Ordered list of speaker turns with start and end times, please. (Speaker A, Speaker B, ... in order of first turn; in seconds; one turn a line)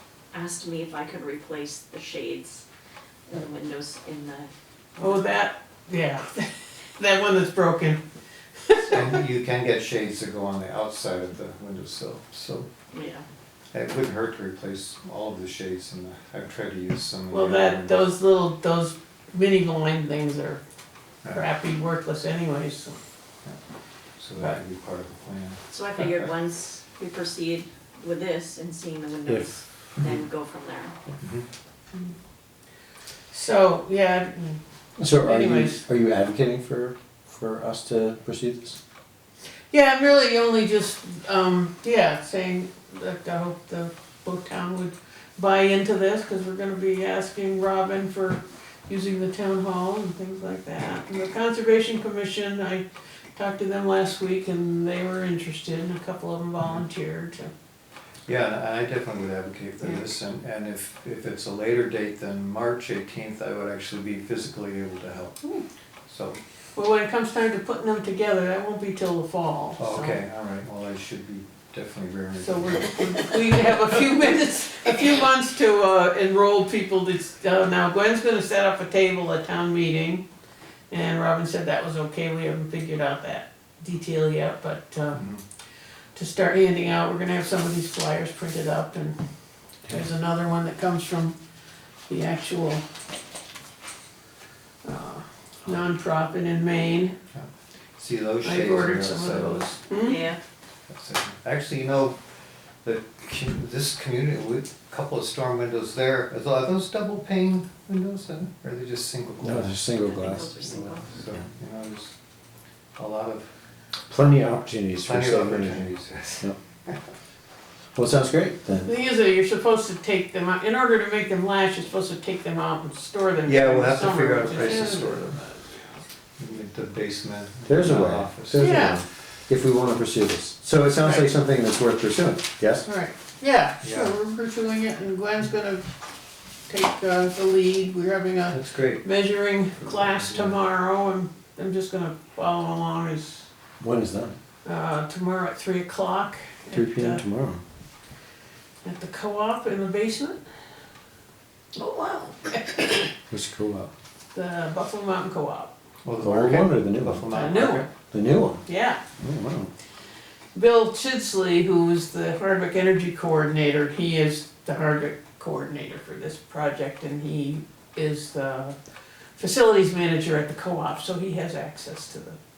Speaker A: 0.3-2.6
Speaker A: 3.3-5.2
Speaker B: 5.0-8.0
Speaker B: 8.6-9.1
Speaker C: 8.9-12.7
Speaker A: 12.9-13.2
Speaker C: 13.7-18.1
Speaker B: 17.3-20.6
Speaker B: 21.3-23.0
Speaker C: 24.2-26.3
Speaker A: 25.7-30.9
Speaker D: 29.3-29.5
Speaker C: 31.2-31.4
Speaker B: 33.3-35.8
Speaker D: 35.0-38.8
Speaker B: 39.7-57.5
Speaker C: 58.2-65.4
Speaker C: 66.1-66.4
Speaker B: 66.7-70.2
Speaker C: 69.8-73.3
Speaker B: 72.4-80.2
Speaker B: 80.9-85.2
Speaker C: 85.1-85.4
Speaker B: 86.1-89.2
Speaker B: 89.9-91.3
Speaker B: 92.1-92.8
Speaker B: 94.8-97.2
Speaker C: 97.3-99.7
Speaker B: 98.4-100.3
Speaker A: 100.0-100.4
Speaker C: 100.9-102.2
Speaker C: 102.8-109.8
Speaker D: 109.4-110.8
Speaker A: 110.0-111.2
Speaker C: 110.7-112.1
Speaker C: 113.0-113.5
Speaker D: 114.1-115.9
Speaker C: 115.0-116.9
Speaker D: 118.0-118.9
Speaker B: 118.8-125.9
Speaker C: 123.4-125.4
Speaker C: 126.4-128.7
Speaker D: 127.7-132.8
Speaker B: 128.6-129.0
Speaker B: 131.0-131.3
Speaker B: 132.8-135.9
Speaker C: 133.8-134.2
Speaker B: 136.7-143.5
Speaker C: 138.5-139.0
Speaker C: 140.0-140.5
Speaker D: 143.8-144.4
Speaker B: 144.6-147.2
Speaker D: 146.7-147.6
Speaker B: 148.8-150.4
Speaker A: 151.8-152.4
Speaker B: 152.5-153.1
Speaker D: 153.3-153.9
Speaker B: 154.3-155.7
Speaker C: 156.0-157.9
Speaker D: 156.2-157.3
Speaker B: 157.3-157.9
Speaker D: 158.1-158.6
Speaker B: 158.6-159.0
Speaker D: 159.2-159.7
Speaker B: 160.5-168.8
Speaker B: 169.4-172.4